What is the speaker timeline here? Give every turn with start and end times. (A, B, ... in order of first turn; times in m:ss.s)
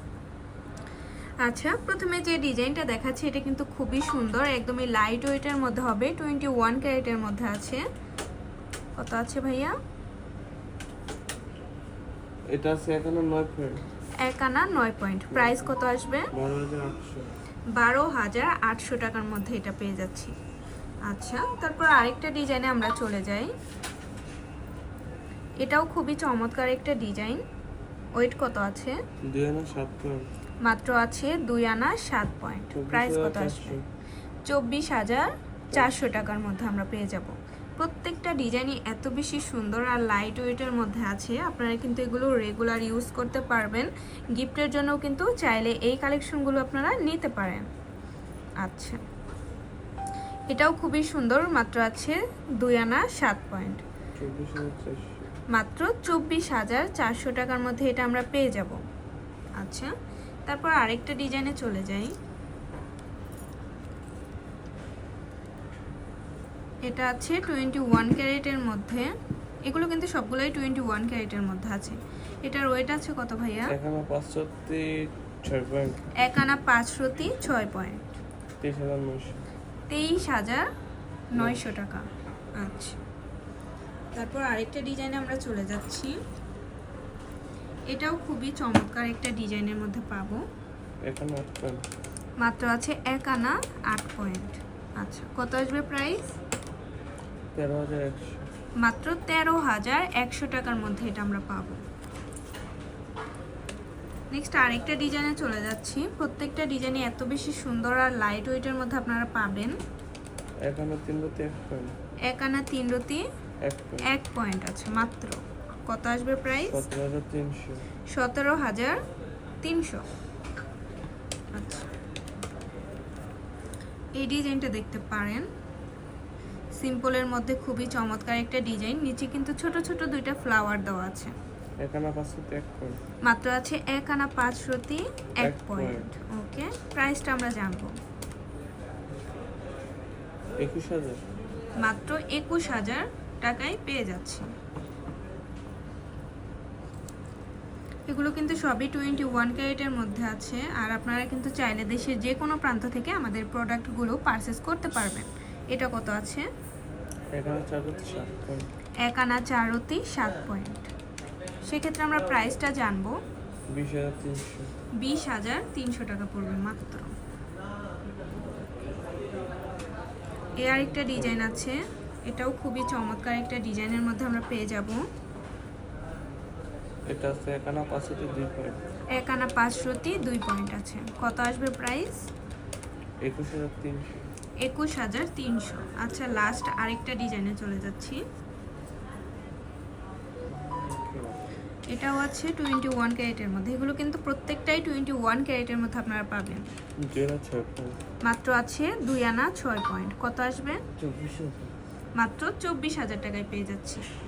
0:01.4-0:07.8 A
0:09.0-0:09.7 A
0:12.5-0:13.8 B
0:14.2-0:16.3 A
0:15.3-0:15.7 B
0:16.3-0:17.3 B
0:17.7-0:20.3 A
0:21.0-0:23.5 A
0:25.6-0:27.4 A
0:28.2-0:29.0 A
0:29.2-0:30.3 B
0:30.6-0:33.8 A
0:32.7-0:33.8 B
0:34.4-0:47.6 A
0:35.7-0:36.2 B
0:48.6-0:49.0 A
0:50.5-0:53.8 A
0:54.2-0:55.2 B
0:55.5-0:58.8 A
0:59.6-0:59.9 A
1:00.5-1:02.1 A
1:06.8-1:09.1 A
1:09.6-1:13.7 A
1:13.7-1:16.0 B
1:16.2-1:18.1 A
1:18.6-1:19.4 B
1:19.9-1:20.7 A
1:21.3-1:23.0 A
1:21.4-1:21.7 B
1:24.1-1:26.2 A
1:27.9-1:30.4 A
1:31.0-1:31.8 B
1:32.4-1:36.3 A
1:37.5-1:38.5 B
1:38.8-1:41.8 A
1:44.3-1:49.8 A
1:50.6-1:51.9 B
1:52.3-1:53.2 A
1:53.6-1:54.1 B
1:54.0-1:56.8 A
1:56.6-1:57.8 B
1:58.1-1:59.0 A
1:59.6-2:00.0 A
2:01.5-2:01.9 A
2:04.2-2:05.5 A
2:06.7-2:11.3 A
2:11.8-2:13.0 B
2:13.2-2:17.9 A
2:15.4-2:16.1 B
2:20.6-2:21.2 B
2:21.8-2:24.5 A
2:28.1-2:36.5 A
2:37.3-2:38.7 B
2:39.0-2:40.9 A
2:41.7-2:43.2 A
2:43.7-2:44.7 B
2:45.0-2:47.1 A
2:50.6-2:55.0 A
2:51.1-2:51.4 B
2:57.1-2:58.8 B
2:59.1-3:02.2 A
3:03.2-3:04.2 B
3:04.6-3:08.2 A
3:10.5-3:11.4 B
3:11.9-3:16.7 A
3:17.0-3:18.0 B
3:18.2-3:20.8 A
3:21.0-3:21.7 B
3:22.2-3:24.0 A